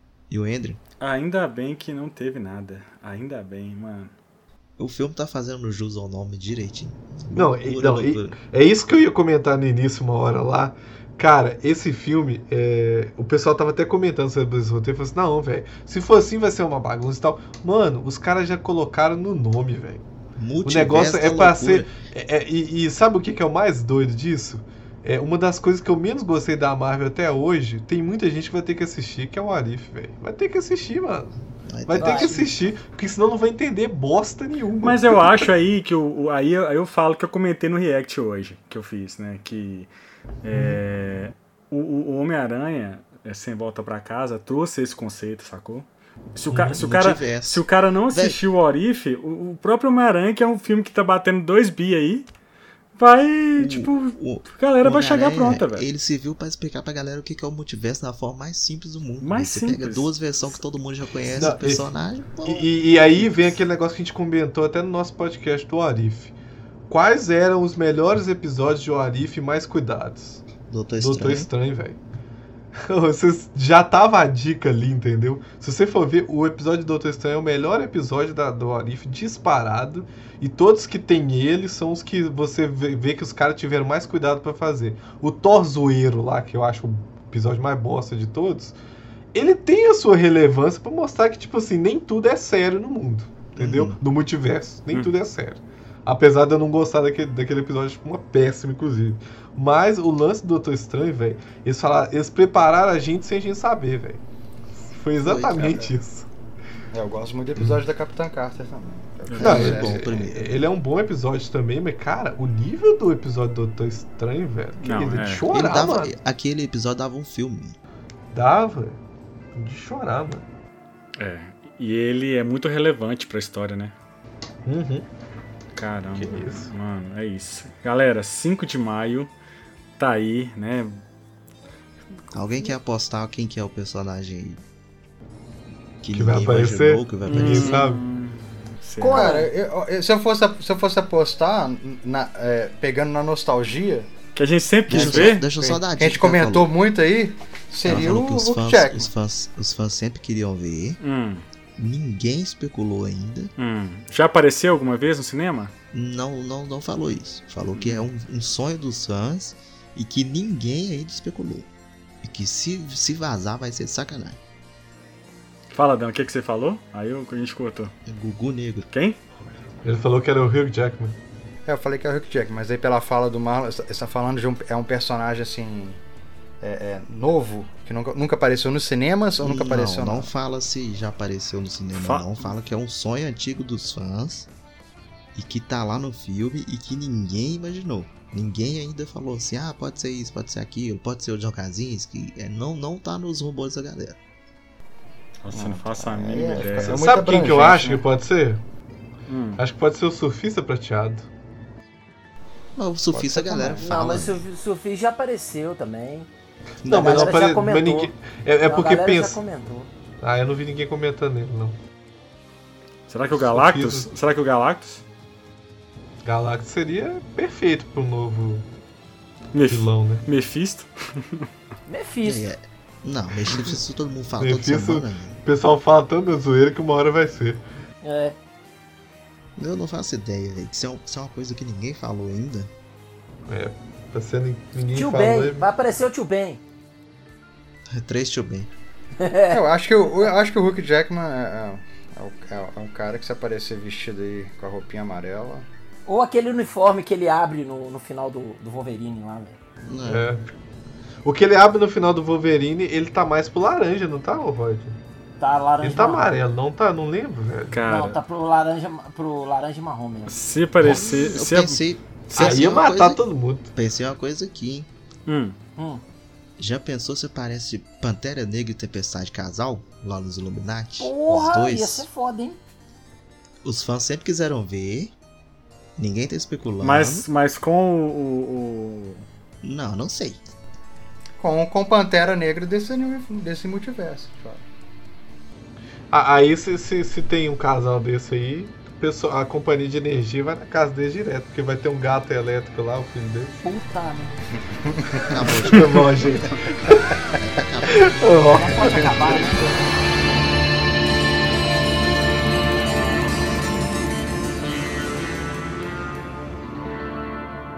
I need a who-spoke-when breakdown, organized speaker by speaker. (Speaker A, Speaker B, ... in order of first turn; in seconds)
Speaker A: 0.3-0.8, 4.8-8.4, 20.4-21.9, 31.7-32.5, 46.8-48.4, 53.6-62.7, 70.7-71.5, 93.6-94.0, 105.2-105.8, 109.4-110.7, 115.5-117.8, 132.3-134.6, 136.0-137.8, 144.9-146.7, 147.8-151.0, 151.8-153.5, 155.9-161.7, 162.2-164.4, 168.1-168.9, 179.4-184.5, 185.3-194.2, 202.8-204.4, 206.8-207.3, 222.2-225.4, 229.6-232.7, 237.9-238.7, 249.8-250.3, 260.8-263.2, 263.7-264.9, 266.6-272.1, 273.6-275.1, 276.0-277.2, 279.6-280.4, 295.2-296.1, 297.4-298.1
Speaker B: 1.0-4.1, 34.8-39.9, 40.4-52.3, 53.0-55.9, 59.2-60.1, 109.3-109.8, 114.8-115.5, 121.2-123.9, 125.7-129.3, 130.0-131.0, 137.3-139.5, 144.3-145.5, 151.0-151.4, 153.6-155.7, 157.8-158.0, 165.7-167.9, 168.9-169.2, 182.0-182.5, 195.4-197.1, 199.3-199.6, 213.1-215.0, 219.5-221.5, 257.7-258.2, 260.3-262.7, 265.3-265.6, 276.8-279.2
Speaker C: 7.3-20.1, 20.6-31.4, 31.9-35.2, 40.5-40.8, 46.5-46.8, 61.3-61.9, 62.4-66.3, 66.9-70.4, 71.0-72.0, 72.8-88.8, 89.3-104.2, 104.9-106.3, 109.4-116.1, 118.3-119.0, 119.5-120.4, 124.7-125.1, 126.2-126.7, 136.1-138.0, 169.8-171.2, 196.8-198.6, 199.6-201.3, 206.8-209.4, 210.2-211.8, 213.4-214.1, 216.2-218.7, 219.7-220.3, 224.4-227.6, 233.5-235.6, 250.1-250.4, 251.2-255.0, 255.8-257.8, 262.3-263.7, 286.1-293.6, 295.7-297.1, 297.9-299.1
Speaker D: 32.0-32.4, 139.0-139.5, 203.4-206.3, 206.9-208.1, 208.7-209.9, 221.9-222.5, 228.0-228.4, 234.9-236.6, 239.2-239.6, 246.1-249.6, 255.4-256.3, 257.9-260.4, 265.8-266.0, 271.0-272.6, 293.6-294.4, 298.5-299.7
Speaker E: 105.5-105.9, 106.9-110.3, 139.1-144.1, 144.9-145.3, 146.0-149.1, 171.7-176.0, 176.6-180.3, 195.5-198.0, 239.5-245.7, 281.4-284.6, 294.8-295.3, 298.8-299.8